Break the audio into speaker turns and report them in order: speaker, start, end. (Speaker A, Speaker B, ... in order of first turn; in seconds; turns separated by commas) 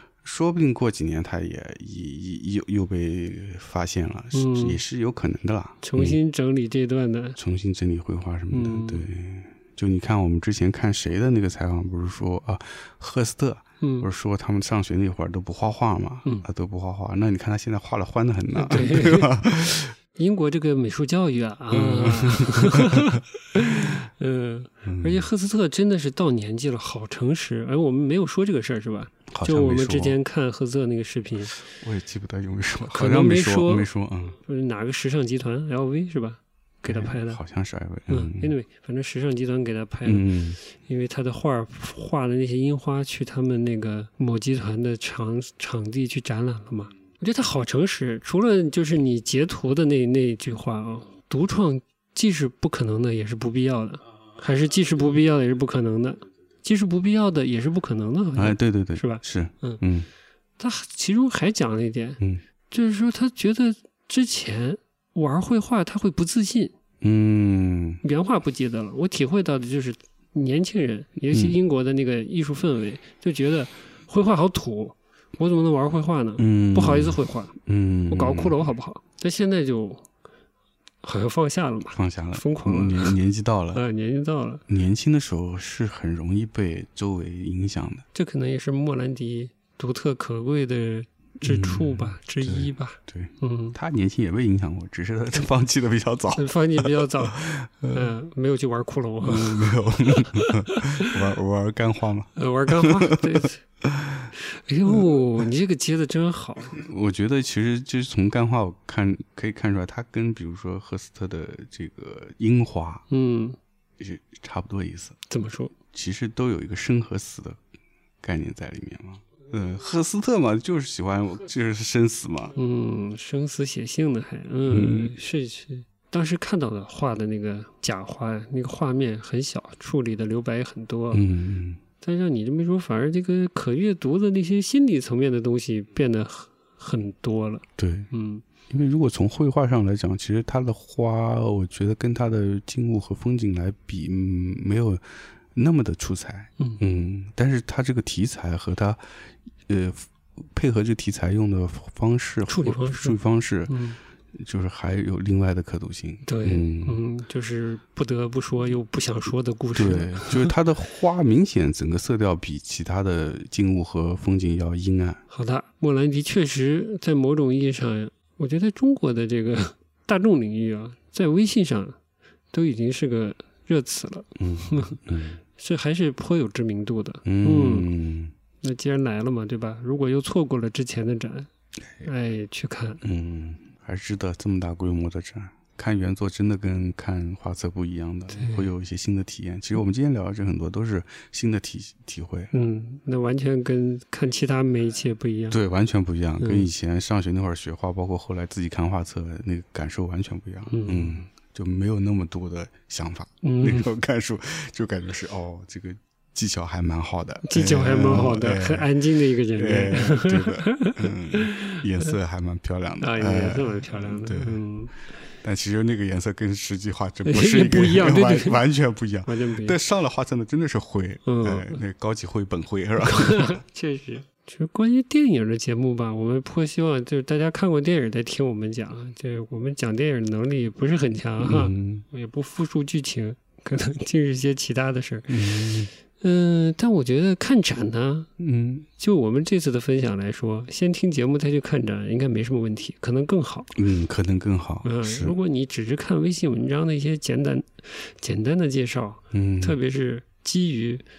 Speaker A: 0.2-6.2, Speaker B: 4.3-4.8, Speaker B: 5.8-7.4, Speaker A: 7.4-19.9, Speaker B: 8.5-9.0, Speaker B: 13.8-14.1, Speaker B: 18.6-19.3, Speaker B: 20.1-31.6, Speaker A: 21.7-23.2, Speaker A: 24.8-25.3, Speaker A: 29.3-30.2, Speaker A: 31.6-34.4, Speaker B: 32.9-37.4, Speaker A: 36.8-38.5, Speaker B: 38.1-59.8, Speaker A: 40.0-40.6, Speaker A: 58.4-60.1, Speaker B: 60.6-62.2, Speaker B: 62.7-66.7, Speaker A: 67.0-68.0, Speaker B: 68.0-77.6, Speaker A: 76.4-78.6, Speaker B: 78.1-80.0, Speaker B: 81.0-83.2, Speaker A: 81.9-83.8, Speaker B: 83.7-84.6, Speaker A: 84.7-88.0, Speaker B: 88.1-93.8, Speaker A: 91.4-98.1, Speaker B: 96.3-101.2, Speaker A: 99.2-104.3, Speaker B: 102.3-103.6, Speaker B: 104.3-106.8, Speaker A: 106.7-113.0, Speaker B: 113.1-113.6, Speaker A: 114.0-115.2, Speaker B: 115.3-115.7, Speaker A: 115.9-117.6, Speaker A: 118.2-122.5, Speaker B: 122.5-131.2, Speaker A: 124.7-125.1, Speaker A: 131.1-131.8, Speaker B: 132.0-138.4, Speaker A: 137.8-138.1, Speaker A: 138.7-145.0, Speaker A: 145.5-149.0, Speaker A: 149.7-153.8, Speaker B: 152.5-154.0, Speaker A: 154.3-157.0, Speaker B: 156.2-160.5, Speaker A: 159.7-165.2, Speaker B: 165.3-172.0, Speaker B: 172.5-175.0, Speaker A: 174.4-175.4, Speaker B: 175.6-177.9, Speaker A: 177.2-178.3, Speaker B: 178.6-181.5, Speaker B: 182.0-183.0, Speaker A: 183.0-192.5, Speaker B: 188.3-188.7, Speaker B: 192.5-195.6, Speaker A: 195.5-209.0, Speaker B: 196.4-196.7, Speaker B: 200.7-201.2, Speaker B: 203.4-203.9, Speaker B: 207.4-211.8, Speaker A: 209.5-214.6, Speaker B: 213.0-214.9, Speaker A: 215.4-223.6, Speaker B: 217.2-218.6, Speaker B: 219.3-219.8, Speaker B: 221.2-221.8, Speaker B: 223.0-238.3, Speaker A: 231.4-232.0, Speaker A: 235.3-235.9, Speaker A: 238.4-238.9, Speaker B: 239.0-243.7, Speaker A: 243.7-245.4, Speaker B: 244.8-251.0, Speaker A: 249.3-249.8